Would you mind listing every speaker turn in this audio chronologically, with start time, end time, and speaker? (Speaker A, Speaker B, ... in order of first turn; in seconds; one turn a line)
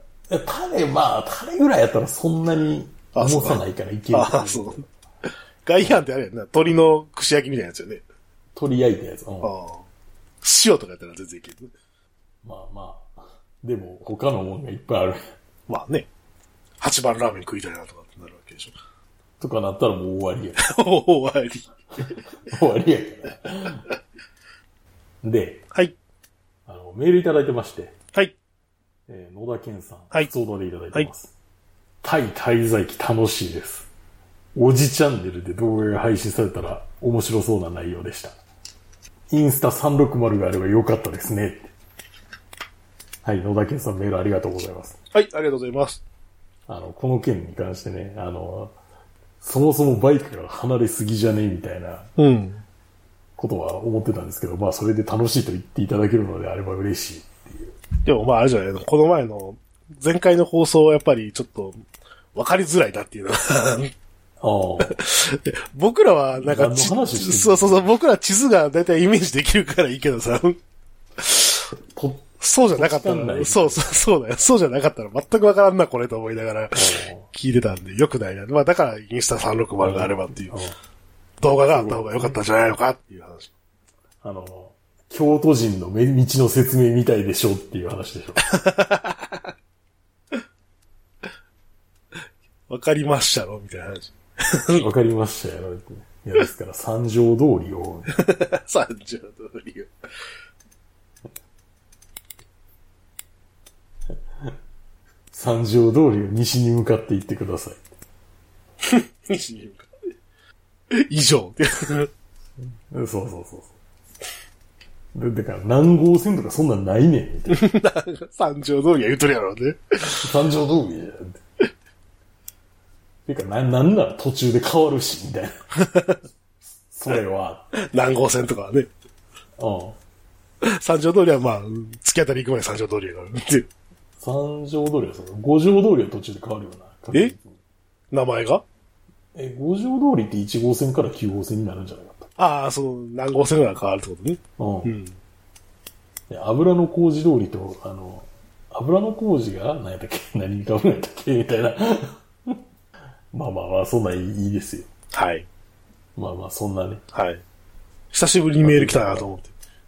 Speaker A: 0.3-4.9
Speaker B: 3.1-4.8
Speaker B: 5.7-8.0
Speaker A: 8.6-9.5
Speaker B: 9.4-9.9
Speaker B: 10.4-11.7
Speaker A: 12.4-15.2
Speaker B: 15.7-16.1
Speaker B: 16.8-18.7
Speaker A: 19.4-20.6
Speaker B: 20.6-22.2
Speaker A: 22.0-23.9
Speaker A: 25.2-25.7
Speaker A: 26.7-27.9
Speaker A: 29.1-31.3
Speaker A: 32.0-33.9
Speaker A: 34.5-38.4
Speaker A: 39.3-41.7
Speaker A: 43.2-45.0
Speaker B: 45.1-46.0
Speaker A: 46.7-48.8
Speaker A: 49.4-52.1
Speaker B: 52.2-52.6
Speaker A: 53.4-57.8
Speaker B: 58.0-61.8
Speaker B: 62.4-63.9
Speaker A: 64.4-65.0
Speaker B: 64.8-70.6
Speaker A: 66.4-67.9
Speaker B: 71.2-71.7
Speaker A: 71.9-73.9
Speaker B: 72.4-80.6
Speaker A: 76.8-77.3
Speaker A: 79.8-80.8
Speaker B: 81.4-83.5
Speaker A: 81.7-82.4
Speaker A: 84.2-88.4
Speaker B: 88.4-89.5
Speaker B: 92.7-94.8
Speaker A: 94.8-98.2
Speaker B: 98.1-99.9
Speaker A: 105.3-107.8
Speaker B: 108.8-109.9
Speaker B: 110.9-112.1
Speaker A: 112.6-113.7
Speaker A: 115.1-117.7
Speaker B: 117.5-120.3
Speaker A: 120.2-121.4
Speaker A: 123.3-125.6
Speaker B: 125.8-126.2
Speaker A: 126.9-127.7
Speaker B: 127.7-128.9
Speaker A: 129.6-130.0
Speaker B: 130.6-133.7
Speaker A: 134.2-137.6
Speaker B: 138.1-138.6
Speaker A: 139.3-142.3
Speaker B: 142.4-145.2
Speaker A: 144.6-145.0
Speaker A: 146.3-152.6
Speaker A: 153.3-154.9
Speaker B: 155.1-155.5
Speaker A: 156.2-157.0
Speaker B: 157.1-157.4
Speaker B: 158.1-159.5
Speaker A: 158.6-159.3